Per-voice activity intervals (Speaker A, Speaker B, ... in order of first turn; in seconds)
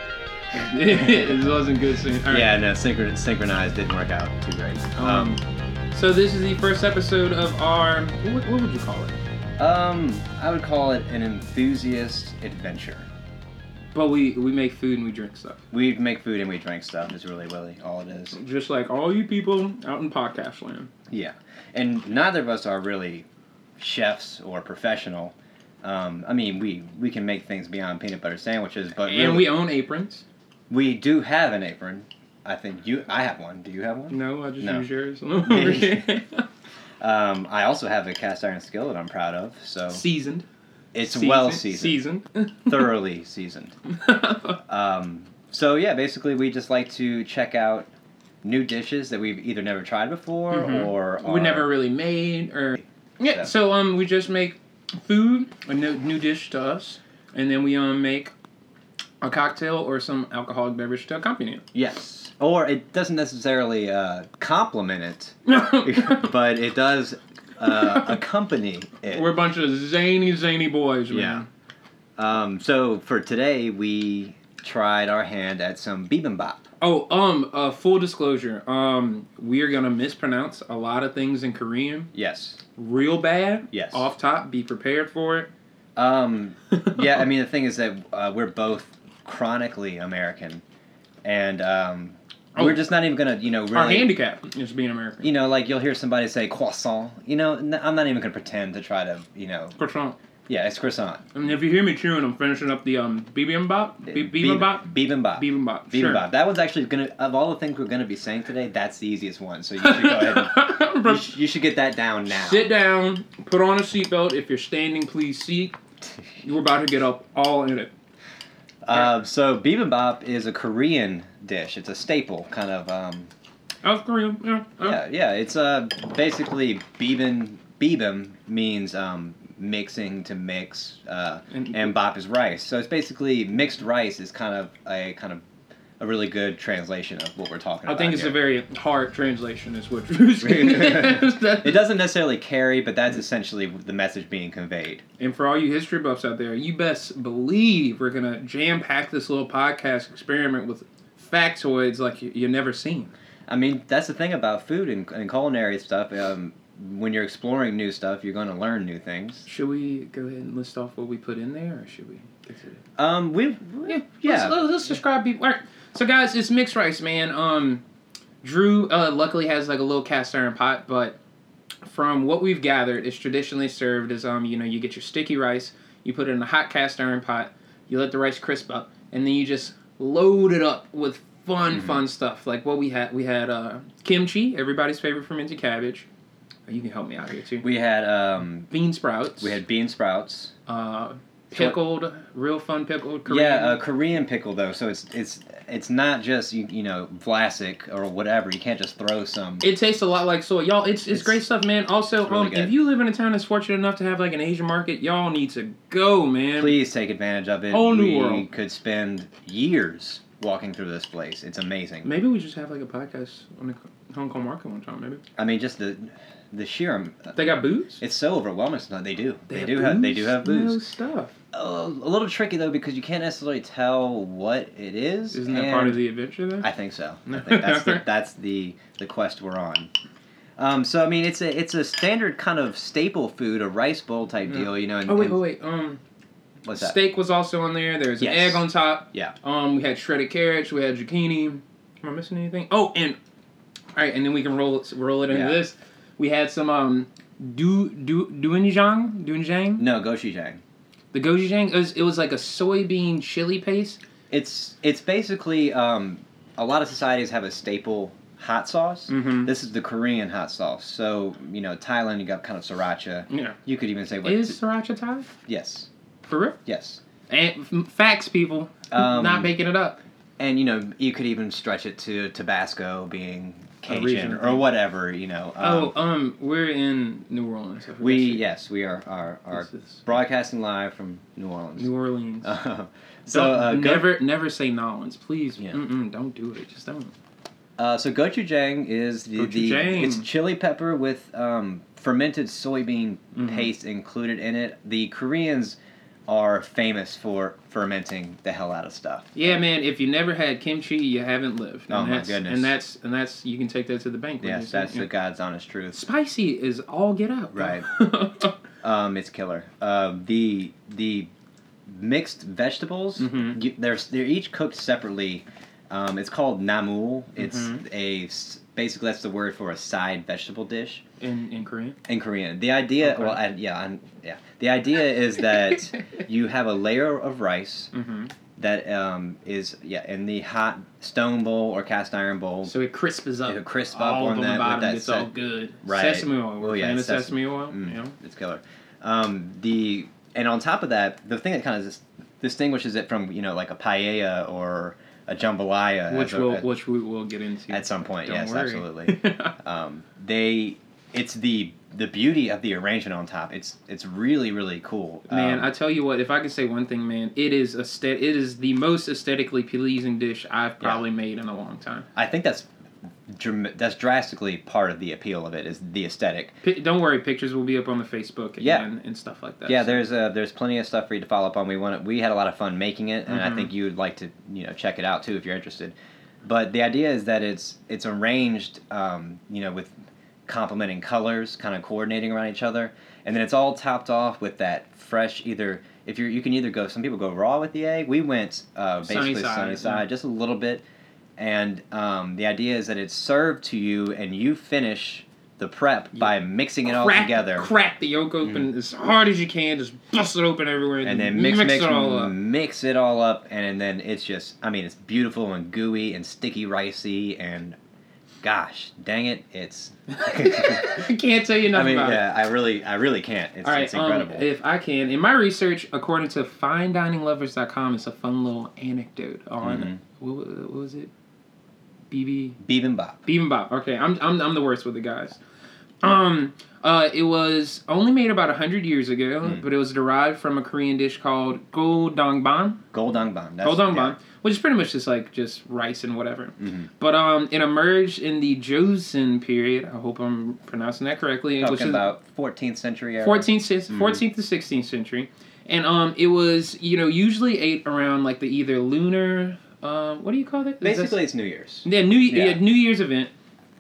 Speaker A: 0.5-2.5, 5.0-5.4, 5.9-9.2, 13.9-15.6, 18.3-20.9, 29.0-30.2, 34.1-36.5, 39.9-40.5, 41.0-42.9, 43.9-44.6, 50.5-58.3, 59.2-61.6, 65.5-66.3, 67.6-68.2, 69.1-71.5, 76.8-82.1, 82.8-85.5, 86.7-87.0, 92.5-92.8, 93.7-95.3, 99.8-100.2, 101.3-106.2, 109.8-111.3, 112.3-115.8, 116.4-117.9, 123.8-125.0, 131.5-131.9, 137.9-141.8, 145.2-153.1, 159.4-162.8, 163.9-167.8, 168.4-171.2, 171.8-186.1, 186.7-187.6, 188.7-189.6, 190.7-193.8, 199.6-206.8, 207.7-208.5, 212.0-215.2, 217.3-218.0, 219.5-221.3, 225.3-226.7, 227.3-228.0, 234.5-236.0, 236.7-243.2, 243.9-249.9, 251.1-254.0, 259.1-259.5, 263.3-263.6, 264.2-265.3, 266.2-266.6, 267.3-270.0, 273.9-274.7, 275.6-278.4, 279.5-280.0, 281.8-282.6, 283.3-287.1, 289.4-290.3, 293.4-293.7, 299.4-305.1, 305.9-308.6, 313.2-313.6, 317.4-317.8, 321.2-322.0, 323.0-323.4, 327.9-328.3, 332.6-338.2, 346.1-349.5, 355.3-362.1, 366.6-370.0, 373.3-373.7, 389.0-390.1, 396.9-402.3, 410.1-412.2, 413.6-421.1, 422.1-422.6, 423.2-425.4, 426.0-432.8, 433.6-442.1, 443.2-451.2, 451.9-453.3
Speaker B: 2.3-5.3, 9.6-13.1, 15.7-18.4, 21.1-23.3, 23.8-29.6, 30.7-34.9, 35.4-36.1, 37.0-40.0, 40.9-42.0, 42.7-43.7, 44.7-47.9, 48.4-51.7, 61.7-69.3, 71.1-71.4, 72.2-76.7, 82.1-82.6, 83.7-84.0, 86.0-90.6, 91.2-94.1, 95.2-99.8, 100.5-101.3, 104.0-112.7, 118.8-123.3, 124.8-135.4, 136.0-138.4, 140.4-145.0, 153.5-159.5, 163.0-164.7, 181.7-182.0, 187.6-188.7, 189.4-190.5, 191.5-191.8, 193.2-199.7, 201.1-201.4, 202.2-202.8, 206.6-212.1, 215.4-220.8, 221.5-226.0, 226.6-229.9, 230.6-235.4, 236.6-237.0, 238.2-239.3, 245.3-245.6, 249.8-250.6, 254.3-264.6, 265.5-265.9, 266.7-267.0, 268.9-269.5, 270.4-275.9, 278.0-281.9, 282.4-284.2, 287.8-299.6, 301.9-302.8, 304.4-306.0, 307.5-307.9, 308.8-311.3, 311.9-321.0, 322.1-327.9, 328.6-332.7, 333.5-335.3, 335.9-346.7, 347.7-355.7, 362.1-362.7, 363.3-366.6, 368.6-368.9, 369.7-379.9, 380.5-390.8, 391.4-397.7, 401.0-407.8, 408.4-411.0, 411.7-414.5, 419.6-420.0, 422.6-423.2, 432.9-434.2, 436.6-436.9, 441.6-444.2, 450.8-452.6